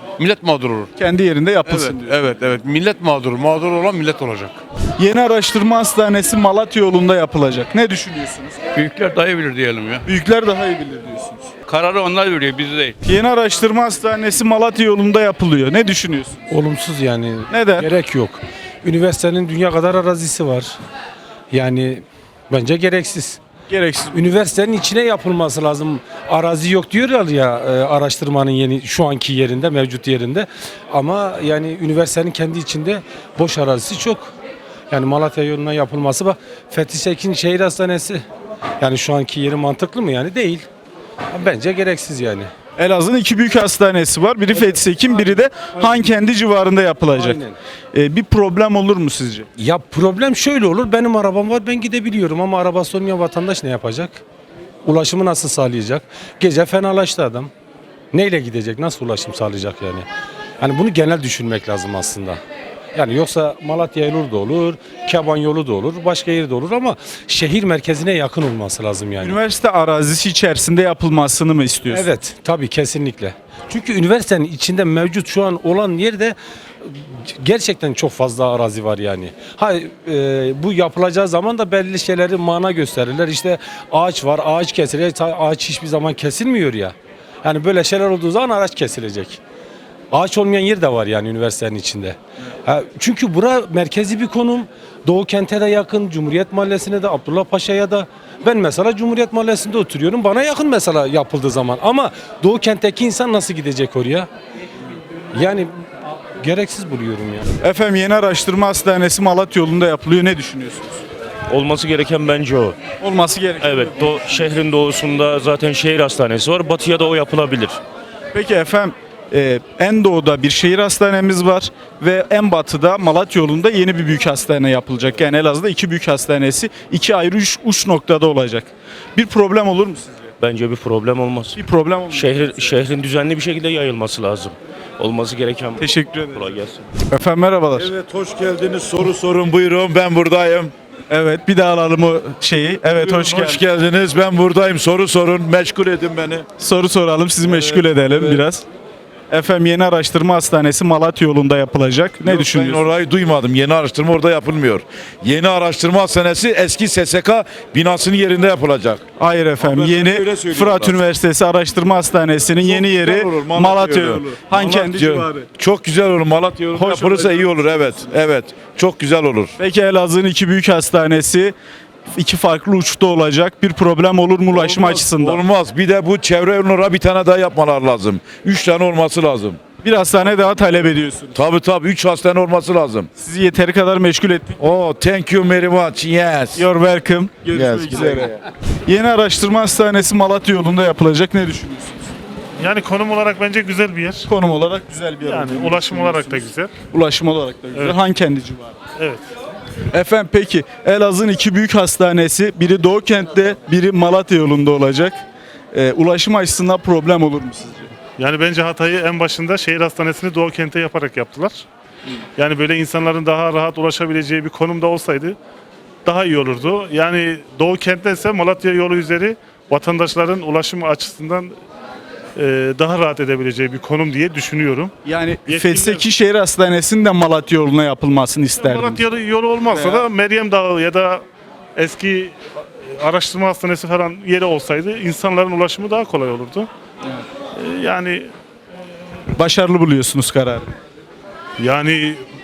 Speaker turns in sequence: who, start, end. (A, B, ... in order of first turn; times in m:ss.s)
0:01.0-0:02.2 A
0:05.0-0:08.6 A
0:08.7-0:10.1 B
0:10.0-0:11.5 A
0:11.6-0:13.0 B
0:13.0-0:16.4 A
0:16.5-0:20.8 C
0:17.5-0:17.9 A
0:21.5-0:23.4 C
0:23.7-0:24.2 A
0:24.1-0:34.3 C
0:34.9-0:38.2 C
0:38.8-0:40.7 C
0:41.3-0:42.5 C
0:42.8-0:47.4 A
0:44.5-0:45.9 C
0:47.1-0:47.6 C
0:47.9-0:49.5 A
0:49.6-0:54.2 C
0:54.8-0:57.5 C
0:58.1-1:00.0 C
1:00.6-1:02.4 C
1:02.9-1:09.4 C
1:09.2-1:12.0 A
1:11.9-1:29.4 C
1:30.1-1:44.3 C
1:45.3-1:45.7 C
1:46.4-1:47.5 C
1:47.6-1:51.0 A
1:51.5-1:52.8 D
1:53.0-1:54.2 A
1:53.6-1:57.8 D
1:58.3-2:10.3 A
2:10.4-2:11.6 D
2:11.5-2:12.7 A
2:12.1-2:16.8 D
2:15.8-2:16.4 A
2:17.1-2:17.9 A
2:17.8-2:20.7 E
2:21.1-2:23.6 A
2:22.9-2:26.4 E
2:26.6-2:28.6 A
2:27.4-2:28.4 E
2:29.3-2:32.9 A
2:32.2-2:39.0 E
2:39.2-2:45.4 A
2:39.6-2:41.0 E
2:42.6-2:49.5 E
2:46.7-2:47.4 A
2:49.6-2:51.5 A
2:52.1-2:55.4 A
2:54.5-2:59.6 E
2:59.8-3:01.4 A
3:01.3-3:03.1 E
3:03.2-3:04.6 A
3:04.6-3:06.6 E
3:06.6-3:08.4 A
3:07.5-3:08.2 E
3:08.9-3:12.1 A
3:12.6-3:14.1 F
3:14.2-3:18.8 A
3:15.3-3:16.7 F
3:19.9-3:25.2 A
3:25.7-3:27.9 A
3:28.2-3:31.5 F
3:32.4-3:35.3 F
3:36.0-3:41.5 F
3:42.4-3:44.9 F
3:45.0-3:49.0 A
3:45.5-3:46.0 F
3:48.7-3:51.0 F
3:49.7-3:50.1 A
3:51.8-3:52.3 F
3:53.0-3:56.6 F
3:57.8-3:58.2 F
3:59.3-4:00.7 A
4:01.6-4:02.1 F